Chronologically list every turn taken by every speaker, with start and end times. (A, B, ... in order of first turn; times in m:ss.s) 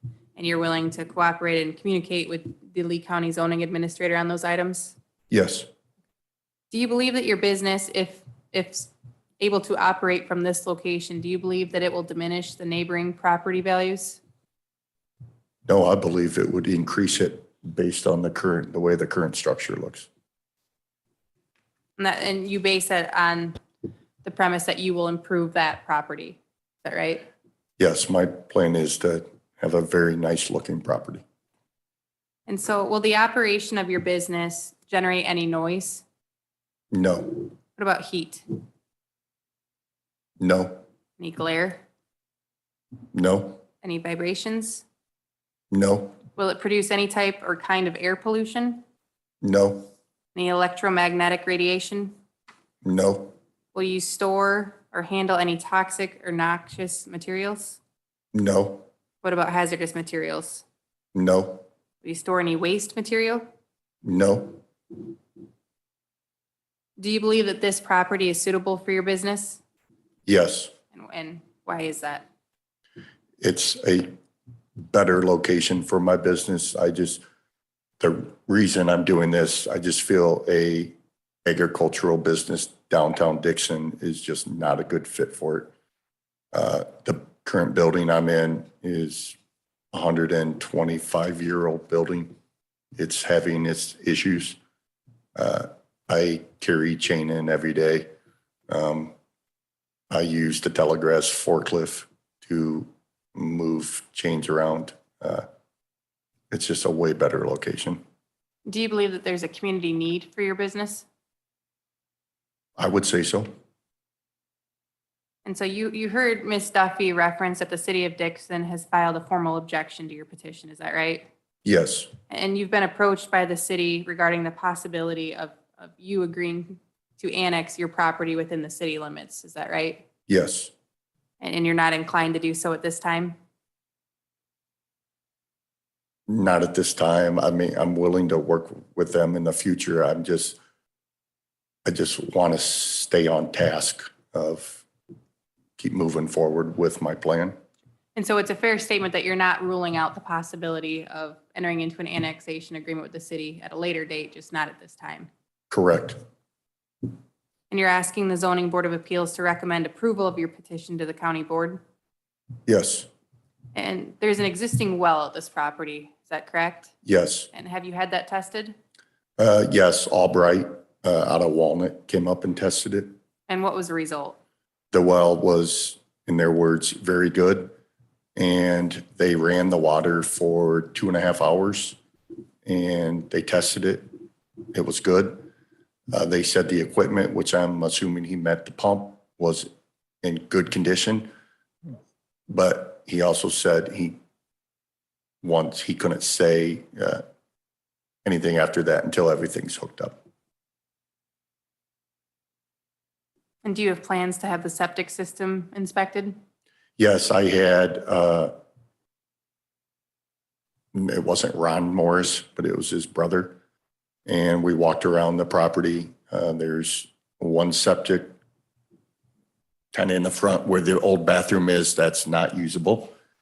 0:00.4-0:04.9 A
0:05.3-0:05.7 B
0:06.7-0:14.2 A
0:15.7-0:20.1 B
0:22.0-0:23.6 A
0:24.2-0:27.2 A
0:27.8-0:31.2 B
0:32.5-0:36.0 A
0:36.9-0:37.5 B
0:37.8-0:38.4 A
0:40.4-0:40.8 B
0:41.2-0:41.8 A
0:43.1-0:43.6 B
0:43.8-0:44.8 A
0:45.7-0:46.2 B
0:46.4-0:48.8 A
0:49.4-0:49.9 B
0:50.3-0:52.1 A
0:52.8-0:53.3 B
0:53.7-0:57.8 A
0:58.3-0:58.8 B
0:59.2-1:00.6 A
1:01.1-1:01.6 B
1:02.0-1:03.4 A
1:04.0-1:04.6 B
1:07.0-1:09.6 A
1:10.2-1:10.7 B
1:10.9-1:12.2 A
1:13.4-1:14.1 B
1:14.9-1:17.2 B
1:18.0-1:25.7 B
1:26.5-1:29.4 B
1:29.9-1:32.3 B
1:33.0-1:34.6 B
1:35.4-1:38.1 B
1:38.7-1:39.1 B
1:40.1-1:45.4 B
1:46.5-1:48.0 B
1:48.7-1:51.0 A
1:52.8-1:53.5 B
1:55.4-2:01.2 A
2:01.6-2:02.1 B
2:02.3-2:10.0 A
2:10.3-2:10.7 B
2:11.4-2:13.4 A
2:16.3-2:20.6 B
2:21.8-2:24.8 B
2:25.8-2:27.5 B
2:28.1-2:35.3 A
2:35.7-2:36.2 B
2:37.7-2:41.8 A
2:42.7-2:43.1 B
2:43.7-2:46.9 A
2:47.0-2:47.5 B
2:47.5-2:48.7 A
2:49.4-2:53.1 B
2:53.5-2:54.4 A
2:54.9-2:57.7 B
2:58.4-3:02.0 B
3:02.6-3:04.1 B
3:04.7-3:05.4 B
3:06.1-3:09.7 B
3:10.2-3:11.3 B
3:12.5-3:14.2 B
3:15.4-3:17.2 B
3:18.2-3:20.2 B
3:23.6-3:26.4 A
3:27.0-3:28.5 B
3:30.9-3:33.6 B
3:34.2-3:38.3 B
3:39.9-3:43.1 B